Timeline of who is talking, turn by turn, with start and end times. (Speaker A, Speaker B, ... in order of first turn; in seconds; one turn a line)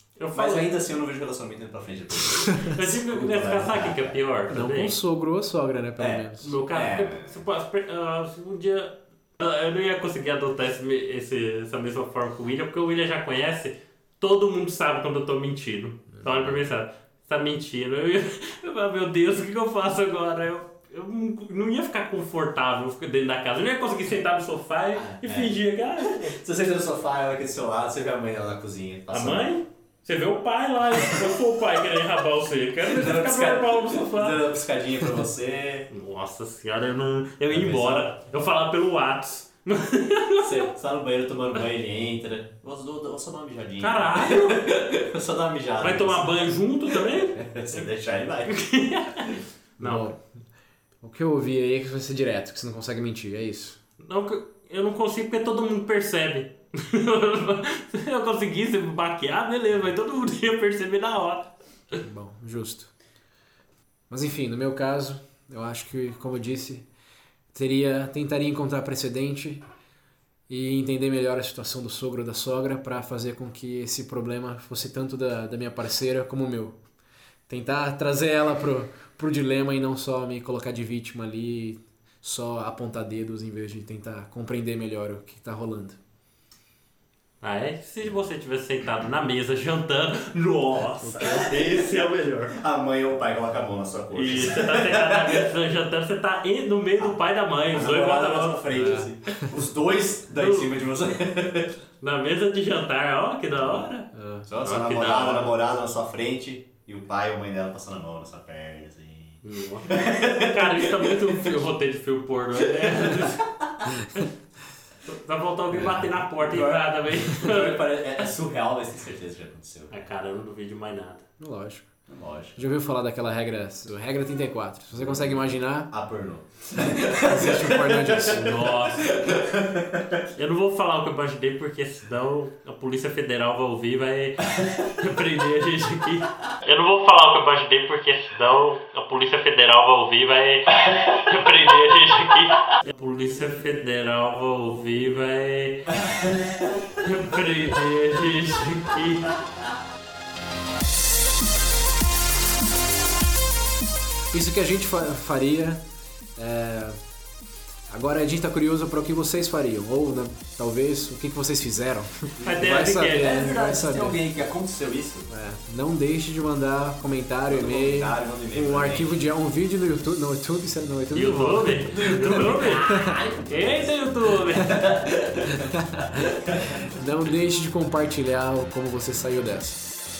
Speaker A: 0.2-0.7
Speaker B: 0.3-4.2
Speaker A: 2.6-5.0
Speaker C: 4.5-6.6
Speaker B: 6.0-7.4
Speaker A: 6.4-26.4
Speaker B: 24.9-29.6
Speaker A: 29.1-34.4
Speaker B: 30.9-31.4
Speaker B: 32.8-35.9
Speaker A: 35.9-40.7
Speaker B: 37.5-38.1
Speaker B: 40.4-48.8
Speaker A: 43.8-44.7
Speaker A: 45.8-47.9
Speaker A: 48.5-50.1
Speaker C: 49.8-50.2
Speaker C: 51.0-53.8
Speaker A: 54.0-62.0
Speaker C: 62.0-62.9
Speaker C: 64.1-66.8
Speaker C: 67.5-69.6
Speaker C: 70.5-76.8
Speaker C: 77.5-86.0
Speaker A: 87.4-92.5
Speaker C: 91.0-91.4
Speaker B: 91.3-95.5
Speaker A: 94.1-98.8
Speaker B: 97.0-101.7
Speaker C: 98.7-99.1
Speaker A: 100.3-100.7
Speaker A: 102.0-104.1
Speaker B: 103.6-103.9
Speaker C: 104.1-104.5
Speaker B: 104.5-111.5
Speaker A: 104.6-105.5
Speaker A: 109.4-113.4
Speaker B: 112.6-113.2
Speaker A: 115.0-118.3
Speaker B: 115.7-119.9
Speaker A: 119.9-121.2
Speaker C: 121.4-121.9
Speaker B: 122.1-122.6
Speaker C: 122.5-125.9
Speaker B: 125.1-125.3
Speaker B: 125.9-130.2
Speaker C: 127.1-128.7
Speaker A: 128.3-129.2
Speaker A: 130.3-145.9
Speaker B: 134.5-134.9
Speaker B: 146.1-146.3
Speaker A: 147.0-149.4
Speaker C: 154.3-155.8
Speaker C: 156.3-157.0
Speaker C: 157.9-164.2
Speaker A: 162.4-163.4
Speaker B: 162.4-165.3
Speaker C: 165.3-173.2
Speaker B: 167.5-169.2
Speaker A: 171.1-174.9
Speaker B: 171.9-173.9
Speaker B: 174.6-176.8
Speaker C: 175.7-176.1
Speaker C: 176.9-179.8